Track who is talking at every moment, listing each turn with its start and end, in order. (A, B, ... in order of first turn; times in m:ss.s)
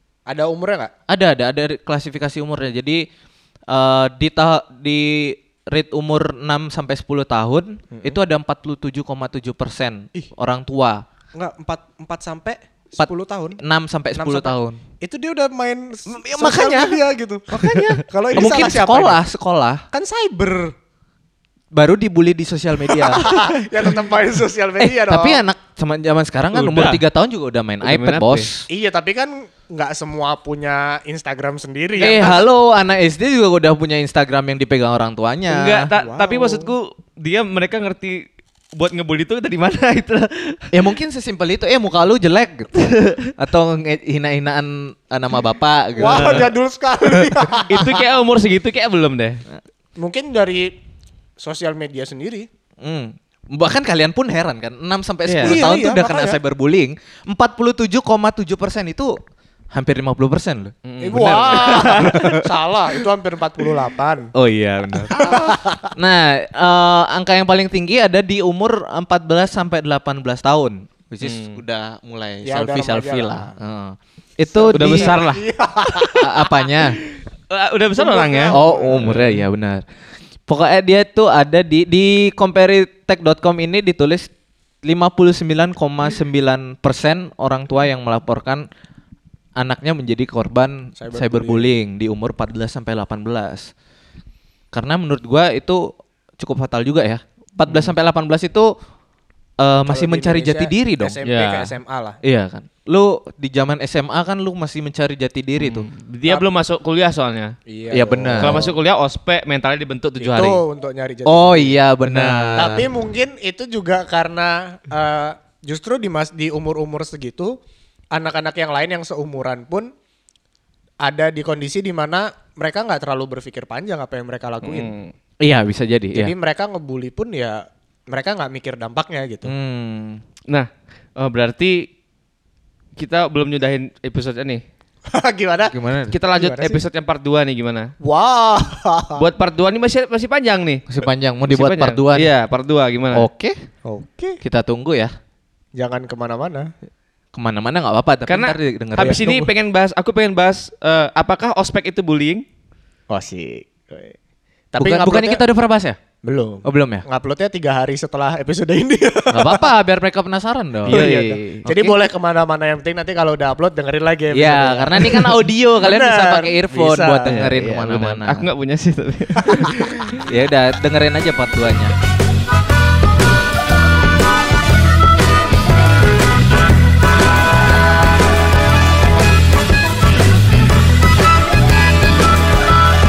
0:00.3-0:00.9 A
0:01.1-0:03.0 B
0:03.7-0:11.0 B
0:07.9-0:08.2 A
0:11.4-0:13.6 A
0:13.0-0:14.8 B
0:14.1-0:19.2 A
0:16.1-0:17.0 B
0:17.8-0:19.8 B
0:19.9-0:20.7 A
0:21.7-0:23.3 B
0:22.8-0:25.4 A
0:24.8-0:28.6 B
0:26.5-0:27.0 C
0:27.8-0:28.5 C
0:28.7-0:32.4 A
0:32.0-0:35.9 B
0:35.5-0:40.8 C
0:35.9-0:36.7 A
0:40.7-0:46.5 B
0:42.8-0:43.3 C
0:46.0-0:48.0 A
0:46.0-0:46.5 C
0:47.6-0:49.4 C
0:50.0-0:50.7 A
0:51.4-0:52.5 A
0:52.8-0:59.1 B
0:55.3-0:55.6 C
0:55.4-0:56.4 A
0:59.7-1:02.4 B
1:00.8-1:02.3 C
1:01.0-1:04.3 A
1:04.3-1:15.2 B
1:05.1-1:05.9 A
1:11.2-1:11.6 C
1:12.4-1:13.5 A
1:14.4-1:16.6 A
1:14.7-1:16.3 C
1:16.2-1:17.0 B
1:17.5-1:19.3 C
1:18.0-1:19.2 A
1:18.5-1:19.8 B
1:20.5-1:24.3 B
1:24.8-1:28.6 B
1:29.6-1:33.7 B
1:31.0-1:31.7 A
1:34.7-1:38.7 B
1:39.6-1:41.2 B
1:39.8-1:42.2 A
1:41.2-1:41.7 C
1:42.2-1:45.8 B
1:45.6-1:47.5 C
1:47.7-1:48.7 A
1:47.9-1:48.6 B
1:48.4-1:50.6 C
1:50.2-1:51.8 A
1:51.2-1:52.8 B
1:52.1-1:52.7 C
1:52.6-1:57.6 A
1:58.1-1:59.9 A
2:01.0-2:04.9 A
2:04.6-2:05.1 C
2:05.4-2:06.3 B
2:06.1-2:09.5 A
2:09.4-2:10.2 B
2:10.5-2:11.9 C
2:13.0-2:14.6 C
2:15.1-2:15.7 A
2:15.7-2:16.1 B
2:16.1-2:17.9 C
2:16.3-2:16.8 A
2:18.0-2:19.2 A
2:19.2-2:20.8 C
2:20.9-2:22.3 B
2:21.5-2:23.2 C
2:23.1-2:23.6 B
2:23.8-2:24.4 A
2:24.4-2:25.1 B
2:25.8-2:26.7 A
2:27.3-2:29.4 B
2:28.3-2:32.4 C
2:29.0-2:29.5 A
2:33.1-2:34.2 A
2:34.7-2:35.4 A
2:34.8-2:36.0 B
2:36.2-2:39.7 A
2:36.6-2:37.0 B
2:39.3-2:41.1 B
2:40.8-2:41.6 C
2:40.9-2:47.5 A
2:41.6-2:41.9 B
2:44.3-2:48.4 B
2:47.2-2:50.2 C
2:49.4-2:49.9 A
2:50.2-2:51.9 B